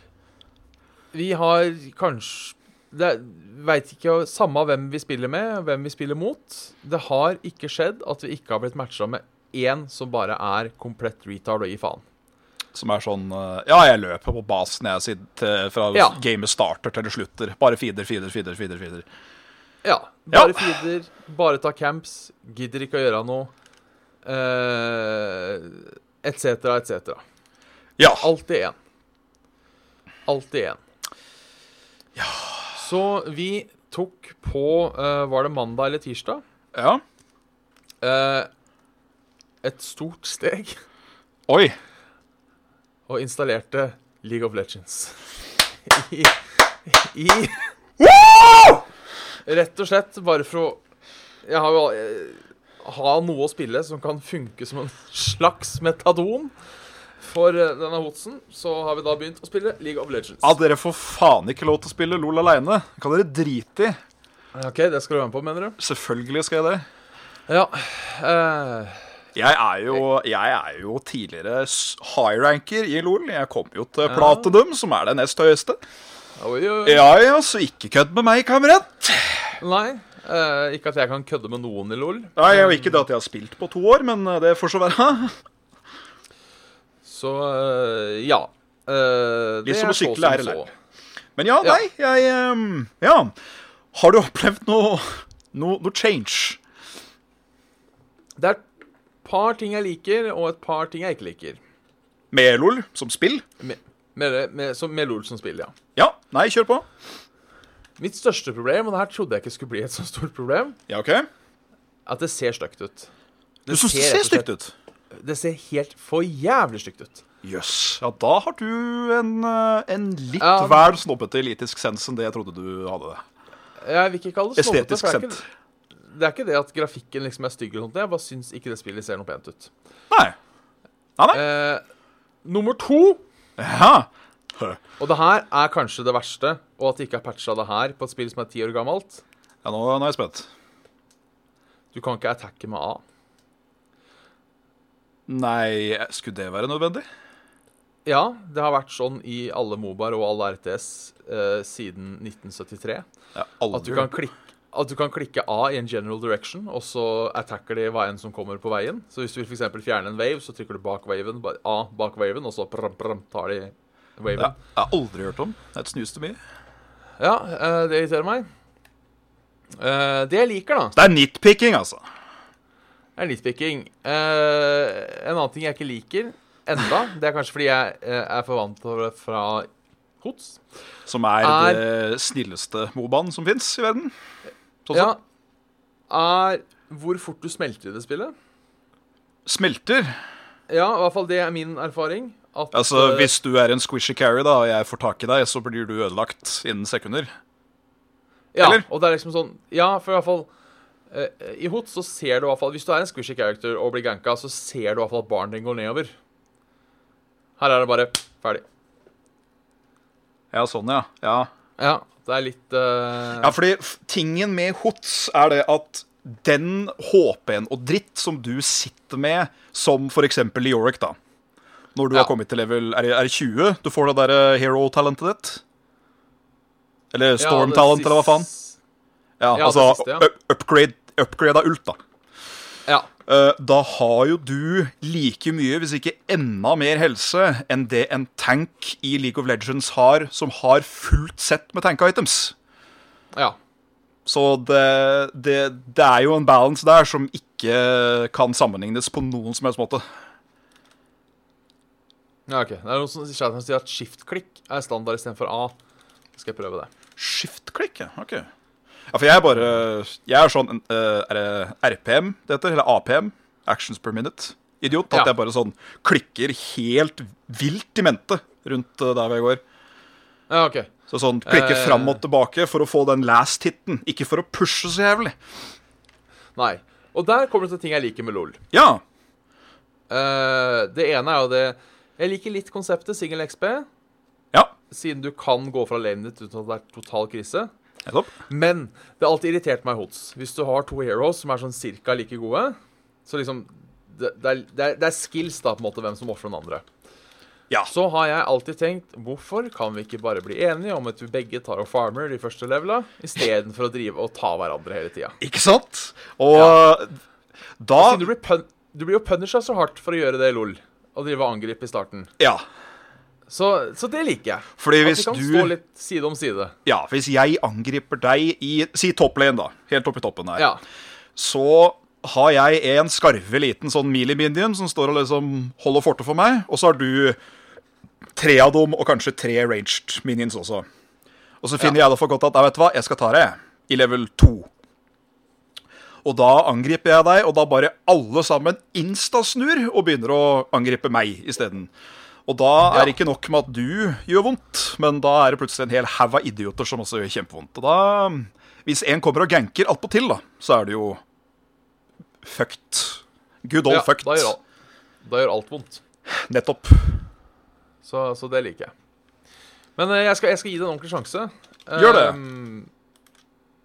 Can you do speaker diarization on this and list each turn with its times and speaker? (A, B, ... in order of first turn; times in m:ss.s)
0:01.1-0:12.0 A
0:12.7-0:19.1 B
0:15.9-0:16.2 A
0:19.8-0:23.5 A
0:20.3-0:20.8 B
0:24.2-0:27.2 A
0:28.0-0:28.3 B
0:28.0-0:28.8 A
0:30.2-0:30.8 A
0:32.2-0:32.7 B
0:32.7-0:36.4 A
0:36.7-0:37.0 B
0:38.0-0:38.5 A
0:39.6-0:40.8 A
0:41.5-0:41.8 B
0:43.1-0:45.2 A
0:45.8-0:47.7 A
0:48.0-0:48.8 B
0:49.4-0:50.8 A
0:51.4-0:56.5 A
0:57.2-1:00.5 A
1:00.4-1:04.0 B
1:04.5-1:05.8 A
1:05.8-1:06.8 B
1:07.5-1:09.0 A
1:09.4-1:15.8 B
1:14.1-1:14.5 A
1:16.4-1:17.1 A
1:16.8-1:19.5 B
1:19.6-1:23.0 A
1:22.4-1:25.3 B
1:27.0-1:30.7 A
1:29.6-1:30.6 B
1:31.4-1:33.3 B
1:33.9-1:36.6 B
1:38.4-1:38.6 A
1:39.2-1:41.6 A
1:42.3-1:43.4 B
1:43.6-1:45.7 A
1:46.0-1:46.9 B
1:48.0-1:50.8 A
1:50.9-1:51.3 B
1:52.1-1:53.1 A
1:53.7-1:54.5 A
1:53.7-1:54.7 B
1:55.1-1:57.2 A
1:57.4-2:03.2 B
2:00.4-2:00.9 A
2:03.8-2:05.4 A
2:04.6-2:05.4 B
2:06.0-2:09.7 A
2:11.3-2:11.8 A
2:12.4-2:13.2 A
2:13.6-2:14.8 B
2:15.0-2:19.2 A
2:19.6-2:20.5 B
2:21.9-2:23.0 A
2:25.3-2:27.0 B
2:28.0-2:33.0 A
2:33.4-2:34.2 B
2:33.7-2:44.6 A
2:44.4-2:46.4 B
2:47.2-2:48.5 A
2:49.8-2:51.0 A
2:51.0-2:52.0 B
2:53.2-2:59.7 A
3:00.2-3:00.6 A
3:01.1-3:04.1 B
3:01.4-3:01.8 A
3:04.9-3:05.1 B
3:04.9-3:05.2 A
3:06.1-3:08.3 A
3:09.5-3:10.2 B
3:10.7-3:13.3 A
3:12.7-3:17.3 B
3:18.5-3:20.5 A
3:21.1-3:26.1 A
3:27.6-3:28.6 A
3:30.5-3:31.5 B
3:31.8-3:33.5 A
3:33.4-3:41.2 B
3:42.0-3:45.6 B
3:47.1-3:48.5 B
3:47.4-3:48.8 A
3:49.4-3:52.0 B
3:49.5-3:50.3 A
3:53.3-4:02.5 B
4:04.2-4:10.0 B
4:12.5-4:15.8 A
4:16.4-4:16.9 A
4:17.2-4:18.5 B
4:19.1-4:29.6 B
4:30.5-4:30.9 A
4:31.1-4:35.4 B
4:31.4-4:32.2 A
4:36.6-4:38.6 A
4:38.7-4:39.0 B
4:40.1-4:43.9 A
4:44.9-4:47.7 A
4:48.1-4:48.3 B
4:48.5-4:56.8 A
4:57.9-5:05.4 A
5:05.4-5:07.1 B
5:06.5-5:06.8 A
5:07.8-5:08.3 B
5:08.0-5:12.3 A
5:13.5-5:16.8 A
5:14.8-5:15.7 B
5:16.9-5:20.6 B
5:20.6-5:20.8 A
5:21.4-5:27.4 B
5:28.4-5:30.9 B
5:31.6-5:34.7 B
5:36.2-5:41.9 B
5:42.5-5:51.2 B
5:52.4-5:54.5 B
5:53.9-5:54.6 A
5:55.2-5:56.0 A
5:56.3-5:57.2 B
5:58.0-5:58.9 A
6:00.0-6:02.9 A
6:02.0-6:02.4 B